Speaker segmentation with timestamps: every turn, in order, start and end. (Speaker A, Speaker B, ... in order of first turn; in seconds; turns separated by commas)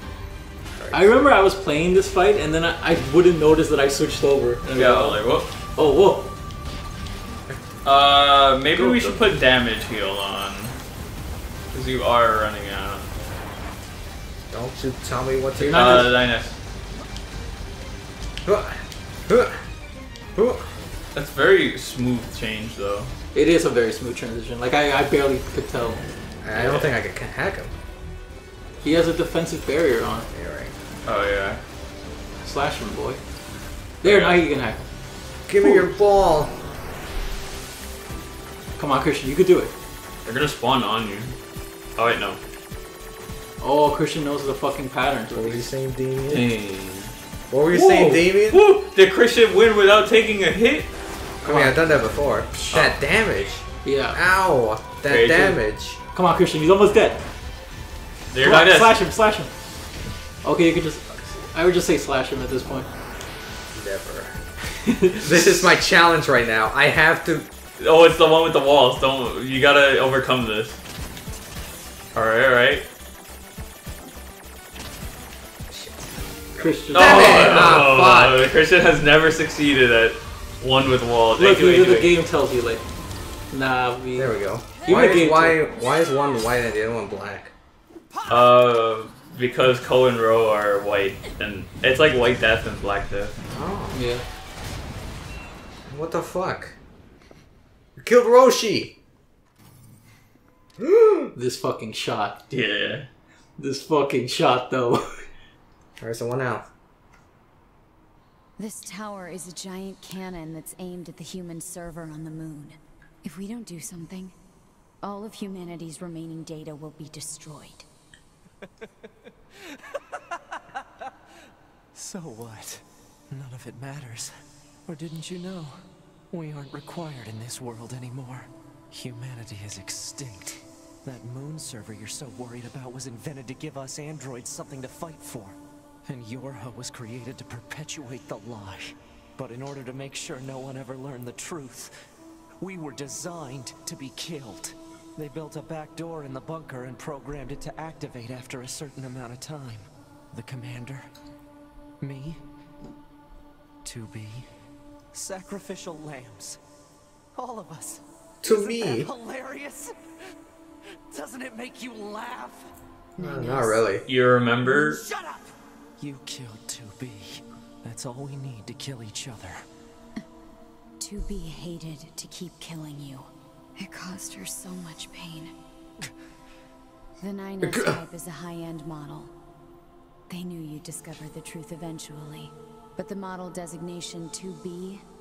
Speaker A: 0.8-1.1, Speaker B: 0.9-5.2, Speaker C: 4.8-5.5, Speaker B: 5.8-6.3, Speaker C: 7.8-10.8, Speaker B: 8.8-9.2, Speaker C: 11.7-13.1, Speaker A: 14.5-16.1, Speaker B: 15.6-16.1, Speaker C: 15.7-16.6, Speaker A: 18.4-19.6, Speaker A: 20.3-20.7, Speaker C: 21.1-23.1, Speaker B: 23.3-26.0, Speaker A: 26.4-27.7, Speaker C: 26.5-26.9, Speaker B: 28.8-30.3, Speaker A: 30.3-30.7, Speaker C: 31.0-31.6, Speaker B: 32.4-33.2, Speaker C: 34.0-34.4, Speaker B: 34.0-34.8, Speaker A: 35.5-36.5, Speaker B: 38.8-39.7, Speaker C: 40.2-41.3, Speaker C: 42.0-42.4, Speaker B: 43.6-45.7, Speaker A: 45.3-46.5, Speaker C: 46.3-47.1, Speaker A: 47.5-48.6, Speaker B: 47.7-48.2, Speaker C: 48.5-50.9, Speaker A: 51.4-56.0, Speaker B: 51.4-51.8, Speaker B: 52.5-52.9, Speaker B: 53.8-54.2, Speaker C: 55.0-55.6, Speaker B: 56.1-57.2, Speaker C: 58.3-59.0, Speaker B: 58.4-59.5, Speaker B: 60.4-62.9, Speaker A: 63.7-64.4, Speaker B: 64.8-65.6, Speaker A: 65.2-67.5, Speaker C: 67.8-70.8, Speaker C: 72.1-72.8, Speaker A: 75.7-76.0, Speaker B: 76.6-77.8, Speaker C: 76.9-82.1, Speaker A: 76.9-78.5, Speaker B: 81.4-82.8, Speaker B: 83.5-85.6, Speaker A: 84.2-87.5, Speaker C: 88.3-93.3, Speaker A: 93.5-94.0, Speaker B: 93.9-94.2, Speaker A: 95.9-96.8, Speaker A: 98.0-99.0, Speaker A: 100.8-101.3, Speaker B: 101.3-102.4, Speaker C: 102.5-103.1, Speaker B: 103.6-105.2, Speaker A: 106.0-106.7, Speaker D: 108.6-114.3, Speaker D: 115.0-117.9, Speaker E: 121.9-124.3, Speaker E: 124.8-141.9, Speaker E: 142.6-151.1, Speaker E: 152.0-152.4, Speaker E: 153.8-154.5, Speaker E: 155.1-156.6, Speaker E: 157.3-159.9, Speaker A: 158.4-159.1, Speaker E: 161.1-162.7, Speaker A: 163.2-164.0, Speaker D: 163.2-163.8, Speaker C: 164.1-165.0, Speaker E: 164.7-169.6, Speaker D: 171.0-175.5, Speaker D: 177.2-179.3, Speaker D: 180.3-185.0